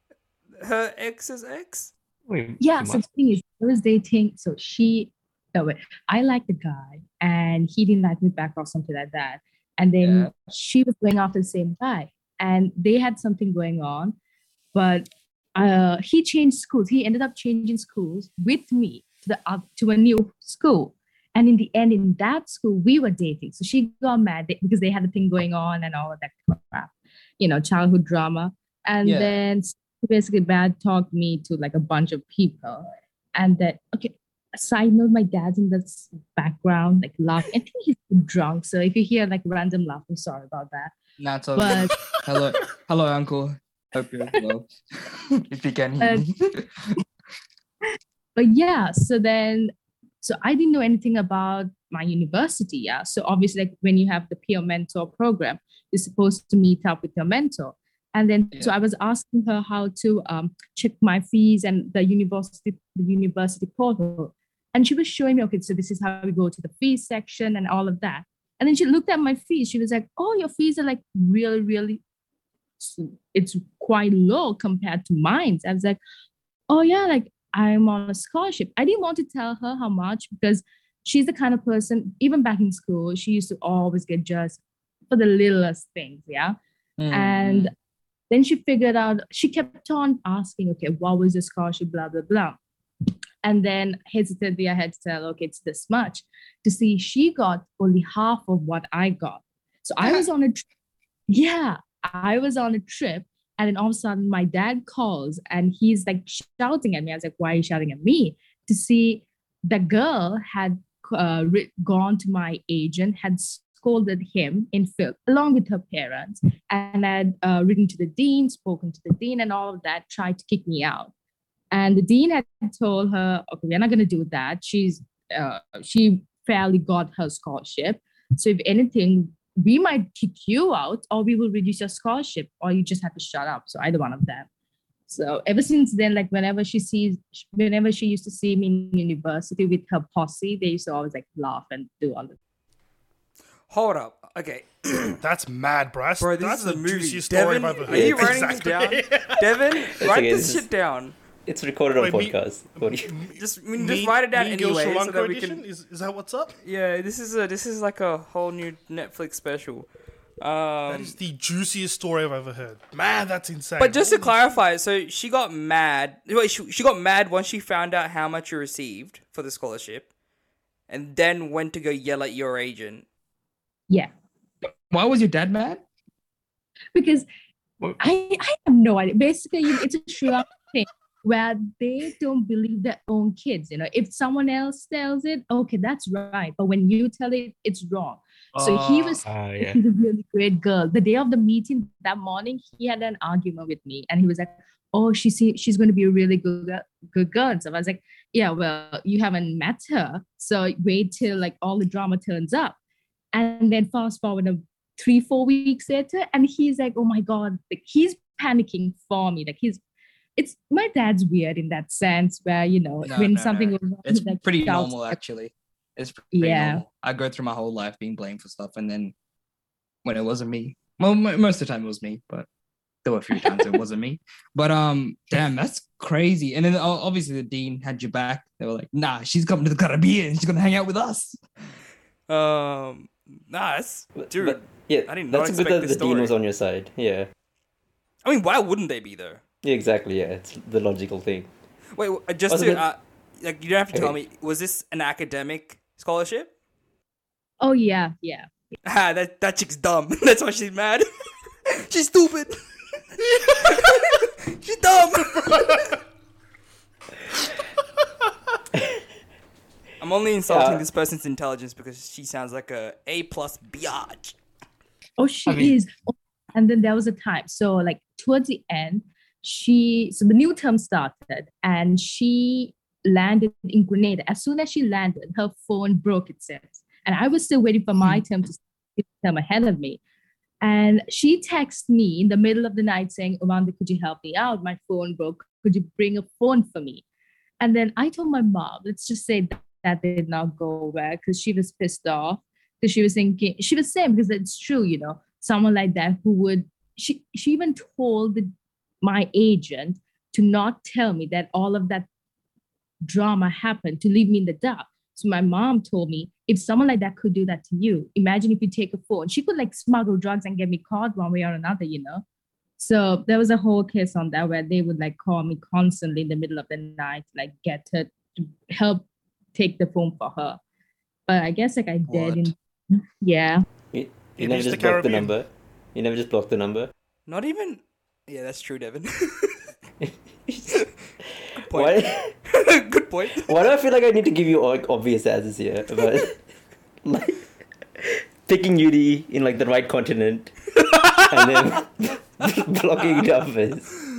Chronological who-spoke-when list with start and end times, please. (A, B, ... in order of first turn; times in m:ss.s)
0:00.6-0:01.9 A
0:02.3-0:03.1 B
0:02.6-0:14.2 C
0:10.0-0:10.3 D
0:14.7-0:41.0 C
0:29.0-0:29.4 D
0:41.2-0:47.0 D
0:41.6-0:42.0 C
0:46.0-0:46.3 C
0:48.4-1:12.0 C
1:12.8-1:16.0 C
1:16.7-1:26.6 C
1:27.0-1:27.7 D
1:27.1-1:27.7 C
1:28.3-1:32.6 C
1:33.4-1:40.6 C
1:41.3-2:01.1 C
2:01.7-2:14.5 C
2:15.1-2:22.4 C
2:23.7-2:25.2 A
2:25.2-2:29.6 E
2:26.2-2:31.2 A
2:27.9-2:28.4 B
2:30.0-2:30.7 B
2:31.5-2:33.1 B
2:32.0-2:36.6 E
2:33.4-2:35.6 A
2:36.6-2:39.9 A
2:40.4-2:41.2 A
2:40.9-2:44.4 E
2:43.8-2:50.1 A
2:50.9-2:53.0 A
2:54.9-2:55.8 D
2:57.0-2:57.3 C
2:58.0-3:22.8 C
3:09.2-3:09.8 B
3:23.3-3:29.8 C
3:30.4-3:35.2 C
3:33.0-3:39.1 D
3:36.3-3:36.8 C
3:40.0-3:42.5 D
3:43.0-3:51.4 D
3:52.3-3:56.3 A
3:54.2-3:57.3 B
3:58.2-3:59.4 A
3:59.6-4:01.5 B
4:02.0-4:06.5 A
4:02.5-4:02.8 B
4:07.6-4:08.5 C
4:08.8-4:11.1 A
4:11.7-4:12.6 A
4:13.2-4:16.0 A
4:15.4-4:16.0 E
4:18.7-4:19.0 B
4:20.0-4:24.4 A
4:20.5-4:20.8 B
4:25.2-4:40.0 C
4:25.5-4:25.8 B
4:40.6-4:47.0 C
4:47.6-4:58.5 C
4:59.0-5:02.1 C
5:03.0-5:12.2 C
5:12.8-5:20.6 C
5:21.3-5:23.6 C
5:22.1-5:22.5 D
5:23.9-5:26.9 B
5:24.4-5:25.4 E
5:27.3-5:29.6 A
5:30.0-5:30.8 B
5:31.6-5:33.6 A
5:31.7-5:32.3 B
5:33.4-5:36.4 B
5:37.0-5:37.5 B
5:38.0-5:43.9 B
5:40.8-5:41.8 A
5:42.4-5:43.2 A